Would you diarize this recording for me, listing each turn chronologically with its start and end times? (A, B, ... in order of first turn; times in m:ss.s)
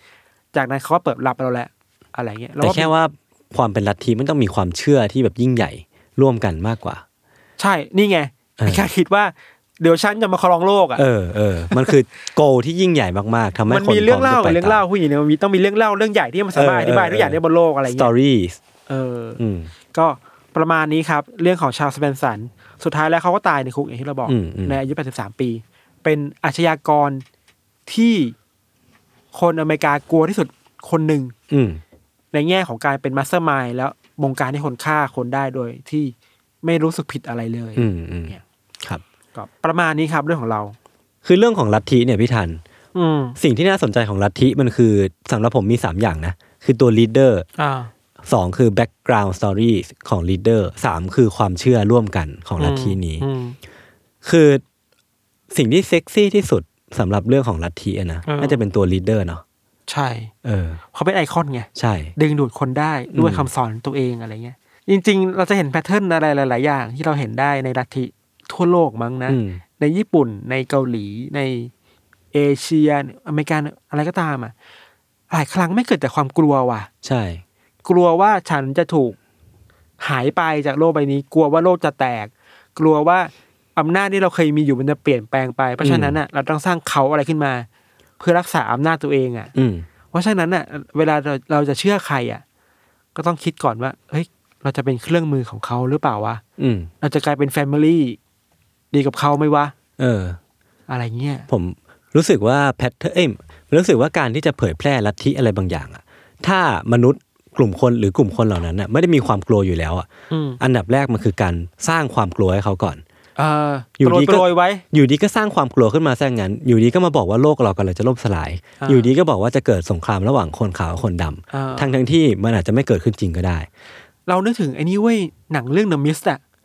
0:00.5-0:02.9 A
0:02.6-0:07.0 B
0:07.6-0:11.0 A
0:08.6-0:08.8 B
0:11.0-0:14.8 B
0:13.7-0:18.1 A
0:16.5-0:18.6 B
0:18.9-0:19.4 A
0:19.4-0:19.7 B
0:19.9-0:27.2 A
0:24.3-0:24.8 B
0:27.9-0:28.4 A
0:29.3-0:31.3 A
0:31.5-0:31.8 B
0:32.3-0:38.4 A
0:37.8-0:39.0 B
0:39.4-0:40.8 A
0:41.2-0:42.6 B
0:43.0-0:43.4 A
0:43.4-0:47.5 B
0:47.6-0:47.9 A
0:48.2-0:53.2 B
0:52.6-0:53.6 A
0:54.2-0:54.6 B
0:55.5-0:59.4 B
0:58.3-0:58.6 A
0:59.9-1:00.3 A
1:00.4-1:00.8 B
1:00.8-1:11.7 A
1:01.8-1:02.2 B
1:03.1-1:03.5 B
1:09.3-1:09.6 B
1:12.3-1:14.5 A
1:15.3-1:16.9 A
1:17.0-1:17.4 B
1:17.8-1:19.2 A
1:20.0-1:27.7 A
1:25.8-1:26.2 B
1:28.2-1:29.5 A
1:29.6-1:29.9 B
1:30.1-1:32.4 A
1:33.2-1:36.4 A
1:36.6-1:36.9 B
1:37.0-1:38.2 A
1:38.9-1:39.7 A
1:40.0-1:40.4 B
1:40.9-1:41.5 A
1:41.5-1:50.1 B
1:50.3-1:50.6 A
1:50.6-1:53.0 B
1:53.4-1:54.8 A
1:54.0-2:03.7 B
1:58.8-1:59.1 A
2:01.5-2:01.9 A
2:04.3-2:06.4 A